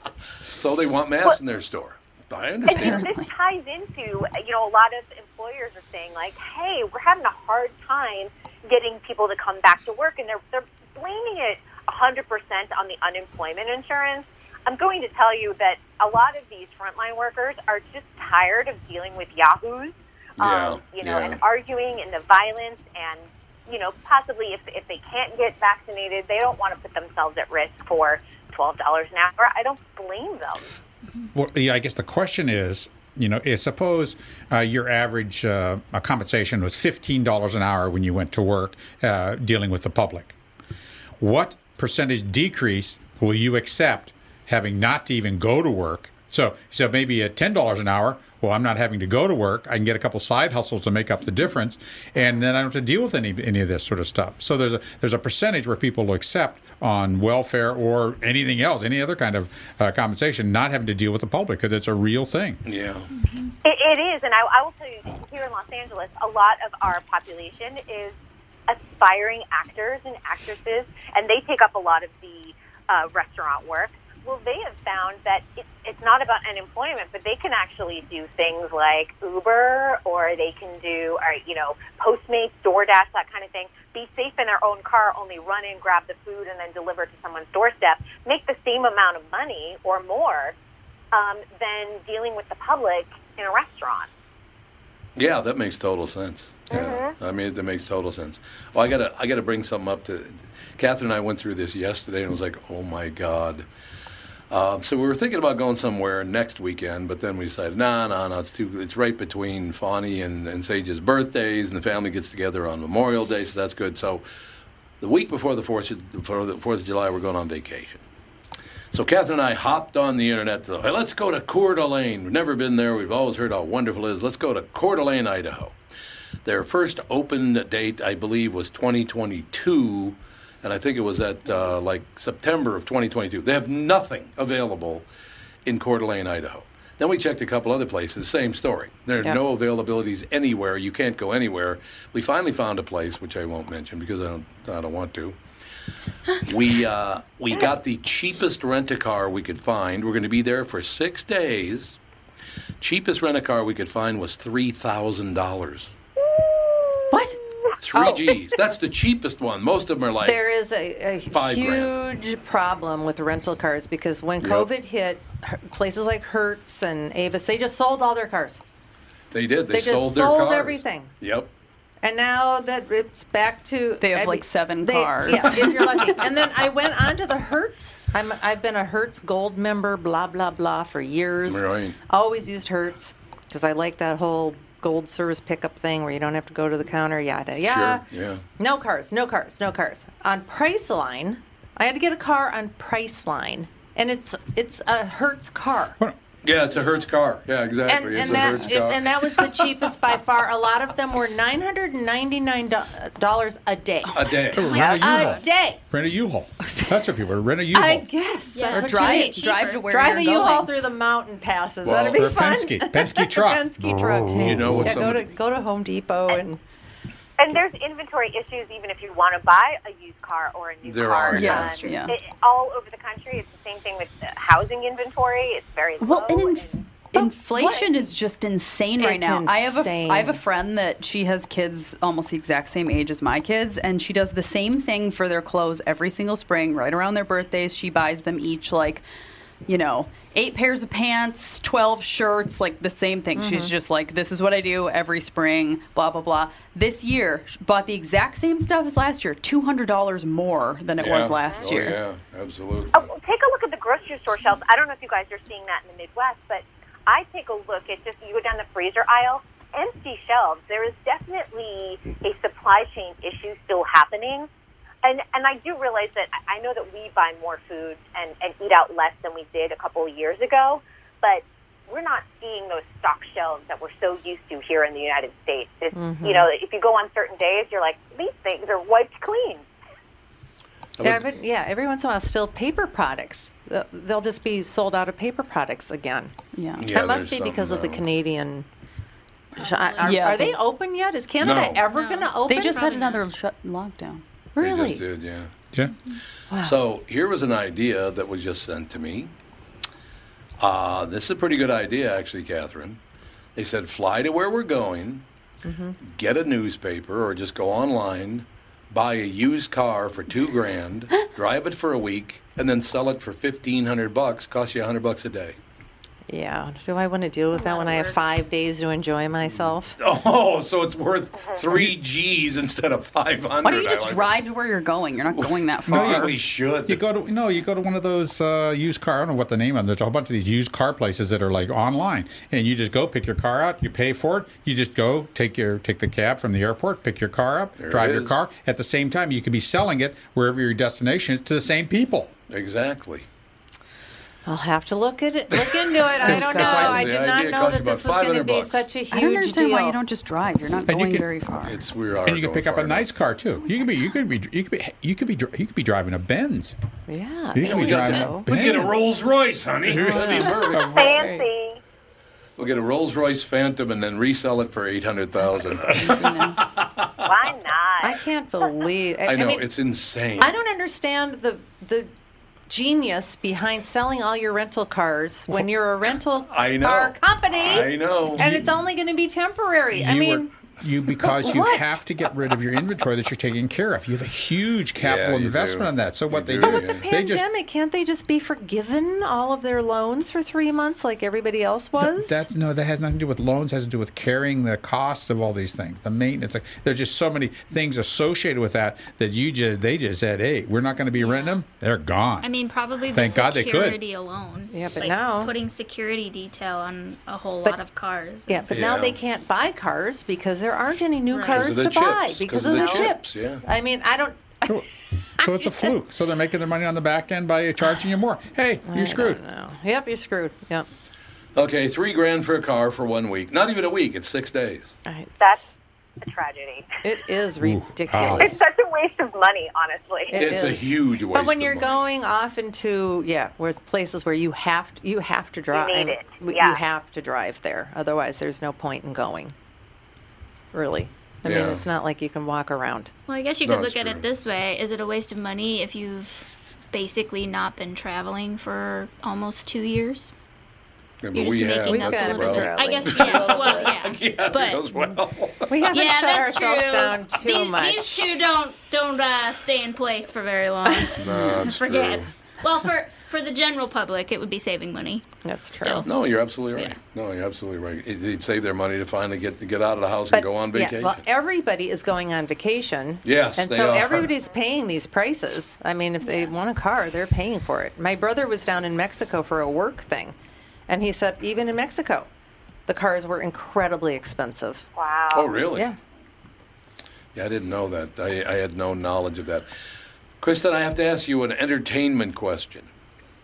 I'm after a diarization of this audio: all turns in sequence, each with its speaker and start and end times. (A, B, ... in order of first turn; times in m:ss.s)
0:00.5-0:03.1 A
0:02.7-0:30.7 B
0:02.7-0:03.3 C
0:20.4-0:21.4 A
0:31.3-0:40.4 D
0:41.2-1:02.6 D
1:02.6-1:03.1 A
1:03.2-1:03.5 E
1:03.6-1:08.2 B
1:08.7-1:30.6 B
1:31.1-1:34.1 B
1:35.2-1:43.7 A
1:36.7-1:37.2 B
1:44.5-1:54.3 A
1:55.0-1:58.0 A
1:58.9-2:05.8 A
2:06.4-2:15.1 A
2:15.6-2:25.4 A
2:26.4-2:32.0 A
2:32.8-2:35.9 A
2:36.2-2:37.2 B
2:37.8-2:40.4 A
2:38.0-2:38.3 F
2:40.2-2:48.6 F
2:41.3-2:41.9 A
2:44.4-2:44.7 A
2:49.3-2:51.5 A
2:49.7-2:51.1 F
2:52.0-3:08.0 F
2:54.0-2:56.2 C
3:01.5-3:02.0 A
3:07.6-3:08.4 A
3:08.6-3:16.0 F
3:16.4-3:19.5 A
3:17.9-3:25.8 F
3:24.1-3:24.8 A
3:24.5-3:28.1 D
3:24.6-3:25.4 E
3:24.8-3:25.2 B
3:26.6-3:26.9 C
3:27.7-3:36.6 F
3:28.5-3:29.8 E
3:28.7-3:30.7 C
3:31.8-3:32.2 A
3:31.9-3:35.0 D
3:34.4-3:35.3 A
3:37.4-3:46.8 B
3:40.8-3:41.7 A
3:41.3-3:42.2 C
3:46.0-3:59.0 C
3:47.2-3:47.9 F
3:49.0-3:50.4 F
3:59.7-4:12.0 C
4:03.4-4:03.7 F
4:11.0-4:13.1 A
4:12.9-4:24.5 B
4:25.0-4:39.6 B
4:36.0-4:36.5 F
4:41.0-4:41.3 A
4:41.0-4:46.3 F
4:46.6-4:46.9 C
4:46.8-4:48.0 A
4:46.9-4:48.7 F
4:49.6-4:52.8 F
4:49.6-4:50.2 E
4:50.0-4:50.6 C
4:51.4-4:51.8 A
4:51.9-4:53.3 E
4:52.4-4:54.2 C
4:54.6-4:55.0 F
4:54.6-4:55.5 A
4:56.5-4:56.8 F
4:56.6-4:59.3 A
5:00.6-5:03.0 A
5:03.6-5:05.2 A
5:05.6-5:06.0 F
5:06.0-5:15.6 A
5:16.3-5:20.0 F
5:17.5-5:18.2 E
5:20.0-5:24.3 A
5:23.6-5:26.4 C
5:25.3-5:27.0 A
5:25.9-5:42.3 D
5:37.8-5:38.4 A
5:42.5-5:43.3 A
5:44.5-5:50.0 F
5:45.7-5:48.8 A
5:46.2-5:47.1 D
5:49.1-5:51.8 C
5:50.9-5:51.3 D
5:51.6-5:53.1 A
5:52.3-5:56.8 D
5:57.1-5:58.5 F
5:57.5-5:59.0 D
5:57.6-6:01.1 A
5:59.9-6:01.2 D
6:00.0-6:01.5 F
6:00.8-6:01.8 B
6:02.6-6:07.2 A
6:05.9-6:06.8 C
6:07.2-6:08.2 B
6:08.0-6:09.7 F
6:09.2-6:10.5 A
6:10.4-6:12.1 F
6:12.7-6:20.5 F
6:16.5-6:18.7 A
6:19.9-6:27.4 D
6:21.2-6:22.0 F
6:25.0-6:27.0 A
6:26.6-6:32.5 F
6:32.0-6:42.5 D
6:41.2-6:41.6 E
6:42.4-6:48.7 E
6:43.1-6:44.0 D
6:44.7-6:45.6 F
6:48.5-6:54.8 F
6:48.7-6:49.2 A
6:51.3-6:51.7 E
6:51.5-6:53.6 A
6:52.7-6:53.1 B
6:55.4-6:59.4 D
6:55.4-6:56.0 F
6:58.9-7:00.9 F
7:01.6-7:05.0 A
7:05.1-7:05.7 F
7:05.4-7:05.7 B
7:06.2-7:07.0 B
7:07.0-7:08.6 F
7:07.6-7:08.6 D
7:08.4-7:10.4 B
7:10.3-7:19.5 F
7:10.3-7:12.0 A
7:15.7-7:16.8 B
7:20.7-7:23.1 F
7:21.4-7:21.8 A
7:23.3-7:30.3 E
7:23.6-7:24.3 A
7:31.2-7:35.8 A
7:31.3-7:34.8 E
7:31.9-7:34.0 F
7:35.7-7:38.4 F
7:35.9-7:46.1 E
7:40.8-7:41.2 F
7:41.2-7:42.3 A
7:41.3-7:41.6 C
7:45.4-7:46.1 F
7:46.0-7:51.2 A
7:46.7-7:47.0 E
7:50.3-8:00.4 F
7:53.2-7:54.3 A
7:56.2-7:56.5 E
8:00.9-8:02.3 F
8:02.9-8:04.8 F
8:05.0-8:05.6 B
8:05.3-8:05.9 A
8:07.4-8:09.7 A
8:10.4-8:12.9 A